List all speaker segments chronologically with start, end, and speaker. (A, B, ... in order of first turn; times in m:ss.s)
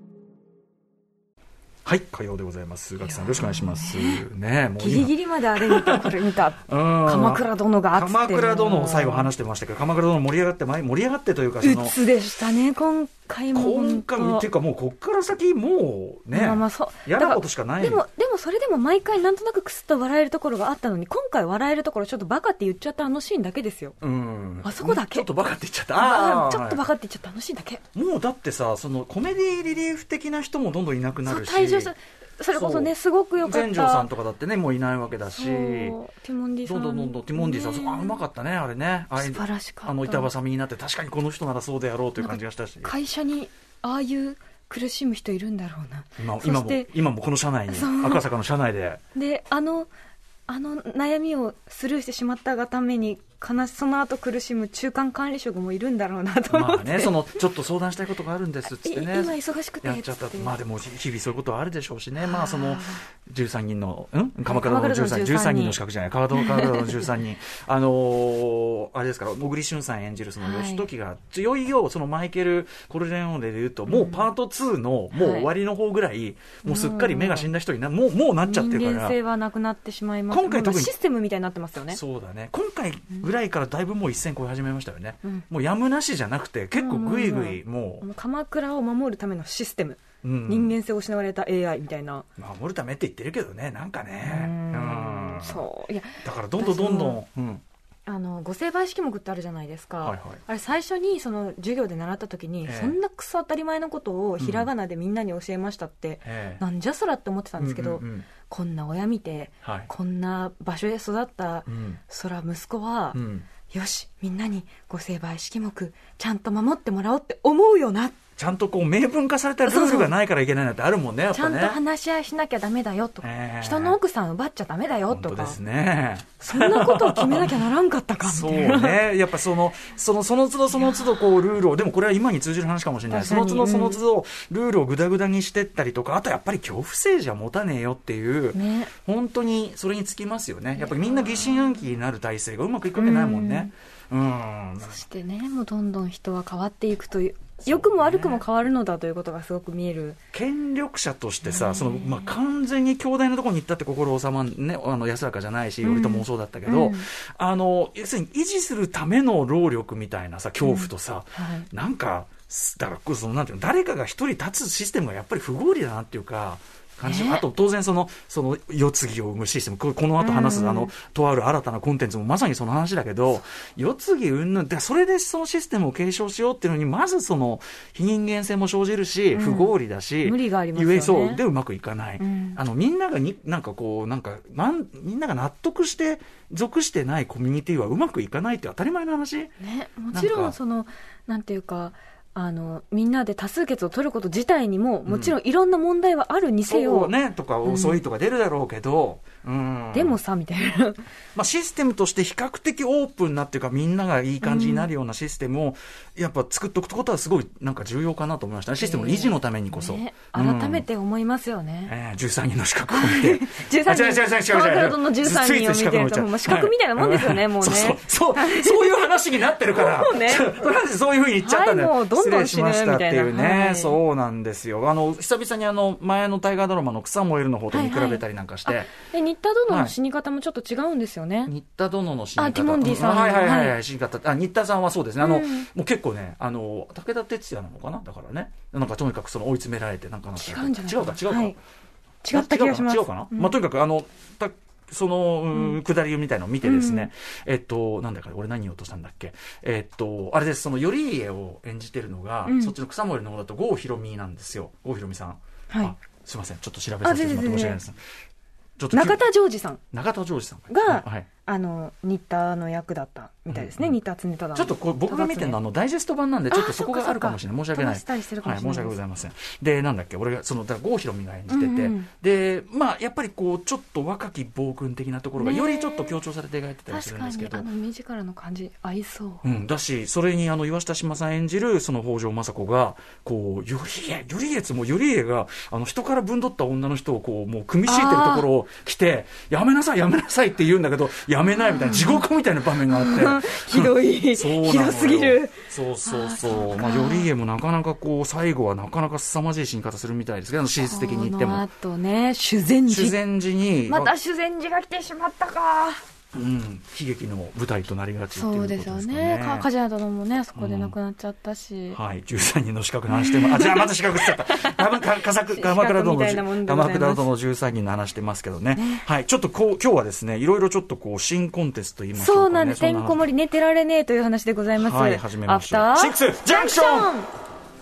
0:01.8-0:12.0 A
0:03.1-0:04.2 B
0:04.8-0:09.3 B
0:11.6-0:14.4 B
0:13.5-0:18.0 A
0:16.3-0:24.0 B
0:24.0-0:26.8 A
0:24.6-0:25.3 B
0:26.0-0:27.8 B
0:28.0-0:31.9 A
0:31.3-0:34.1 B
0:32.5-0:36.0 A
0:35.3-0:38.2 B
0:36.6-0:42.9 A
0:39.2-0:40.3 B
0:42.2-0:46.9 B
0:46.2-0:49.0 A
0:47.7-0:48.2 B
0:49.2-0:49.9 B
0:50.5-0:57.1 B
0:56.5-1:19.2 A
0:58.7-1:00.6 B
1:02.2-1:03.0 B
1:04.5-1:05.8 B
1:06.3-1:07.1 B
1:10.4-1:10.9 B
1:13.9-1:14.3 B
1:15.1-1:15.5 B
1:16.6-1:17.5 B
1:18.5-1:22.0 B
1:20.3-1:20.9 A
1:21.9-1:28.0 A
1:26.7-1:32.3 B
1:30.2-1:30.8 A
1:32.4-1:35.6 A
1:34.2-1:37.2 B
1:36.2-1:37.6 A
1:38.1-1:58.2 B
1:40.0-1:40.4 A
1:42.7-1:43.0 A
1:44.4-1:44.7 A
1:46.2-1:46.6 A
1:47.6-1:48.3 A
1:49.6-1:49.9 A
1:51.7-1:52.0 A
1:53.1-1:53.5 A
1:58.4-2:01.8 A
1:59.6-2:00.1 B
2:01.3-2:05.6 B
2:03.2-2:04.0 A
2:05.1-2:07.6 A
2:06.4-2:09.0 B
2:08.2-2:25.0 A
2:13.1-2:14.0 B
2:18.6-2:18.9 B
2:20.8-2:21.7 B
2:23.0-2:23.7 B
2:24.8-2:30.2 B
2:27.6-2:28.4 A
2:30.3-3:09.5 A
2:31.5-2:32.3 B
2:35.8-2:37.1 B
2:40.6-2:41.7 B
2:47.0-2:47.4 B
2:50.2-2:50.9 B
2:59.3-3:01.4 B
3:02.2-3:02.6 B
3:09.6-3:17.1 B
3:10.1-3:10.6 A
3:15.1-3:15.4 A
3:16.7-3:20.2 A
3:17.6-3:18.0 B
3:19.9-3:21.0 B
3:21.4-3:30.8 A
3:24.4-3:24.9 B
3:28.8-3:31.9 B
3:31.9-3:48.9 A
3:32.9-3:39.0 B
3:39.7-3:40.6 B
3:41.4-3:44.0 B
3:47.7-3:51.5 B
3:49.7-3:50.0 A
3:51.5-4:01.6 A
3:52.4-3:53.8 B
3:55.2-3:55.7 B
4:00.4-4:01.6 B
4:02.2-4:03.6 B
4:02.3-4:18.0 A
4:06.6-4:07.1 B
4:12.4-4:12.8 B
4:17.0-4:17.8 B
4:18.8-4:19.2 A
4:18.9-4:19.8 B
4:19.9-4:21.3 A
4:20.7-4:25.6 B
4:23.5-4:24.0 A
4:24.6-4:37.7 A
4:26.5-4:29.0 B
4:31.5-4:32.1 B
4:35.4-4:36.2 B
4:36.9-4:39.4 B
4:39.4-5:01.6 A
4:47.9-4:48.5 B
4:51.6-4:52.2 B
4:52.9-4:57.3 B
5:00.8-5:03.2 B
5:02.9-5:04.1 A
5:03.9-5:06.0 B
5:06.3-5:09.7 A
5:08.3-5:12.0 B
5:10.6-5:11.0 A
5:11.9-5:23.2 A
5:13.1-5:17.3 B
5:18.8-5:19.0 B
5:22.2-5:27.3 B
5:24.8-5:27.1 A